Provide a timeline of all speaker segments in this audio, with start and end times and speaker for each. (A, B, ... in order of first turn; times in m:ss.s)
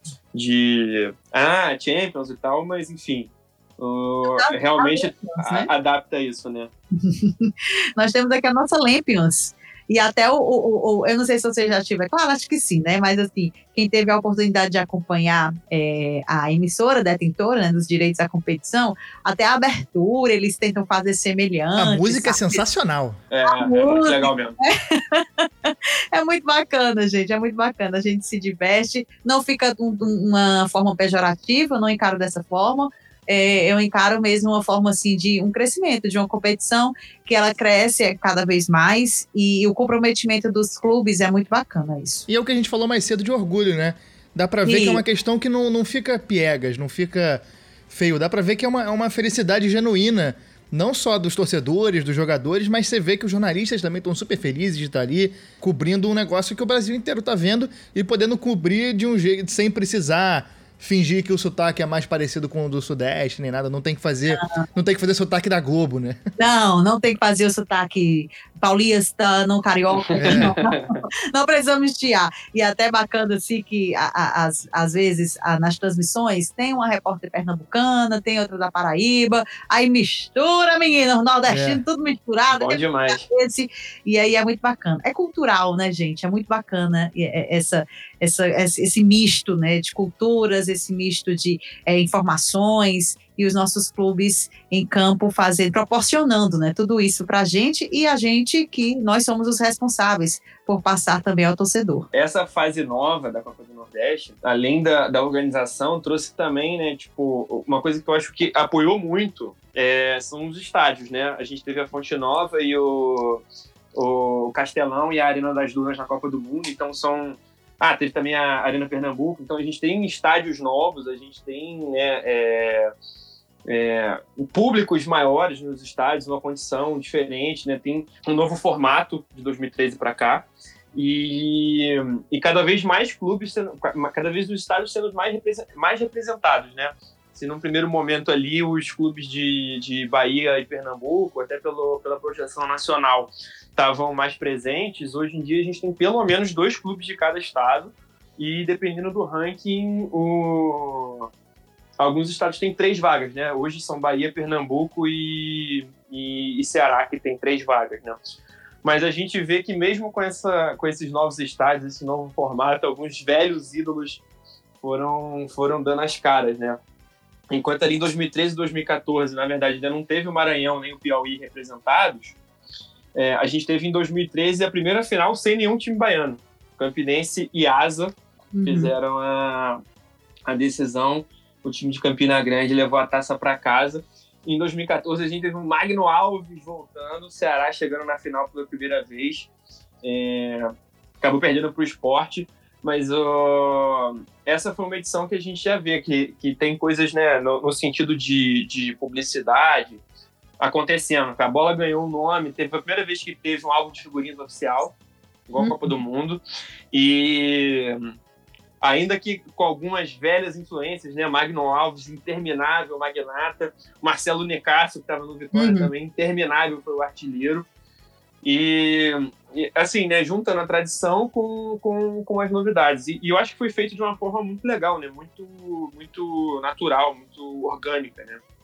0:00.3-0:06.7 A
0:04.2-0:05.7 B
0:07.0-0:22.6 B
0:21.8-0:23.2 C
0:23.3-0:24.6 A
0:23.5-0:42.2 B
0:42.3-1:06.2 C
0:44.6-0:45.0 B
1:04.4-1:04.6 B
1:06.4-1:42.1 B
1:10.1-1:11.0 A
1:10.2-1:10.5 C
1:21.5-1:21.8 C
1:22.5-1:23.2 A
1:42.1-1:53.4 A
1:54.0-2:02.9 A
2:03.7-2:31.3 A
2:32.0-2:38.2 A
2:38.8-2:44.2 A
2:44.8-2:46.8 A
2:47.5-2:52.4 A
2:53.2-2:58.1 A
2:58.5-2:58.9 B
2:58.7-2:59.8 A
3:00.5-3:09.5 A
3:10.0-3:10.7 A
3:11.2-3:20.0 A
3:20.6-3:24.9 A
3:25.5-3:26.4 A
3:25.6-3:25.9 B
3:26.9-3:28.1 A
3:28.8-3:37.7 A
3:35.5-3:35.9 B
3:38.4-3:48.4 A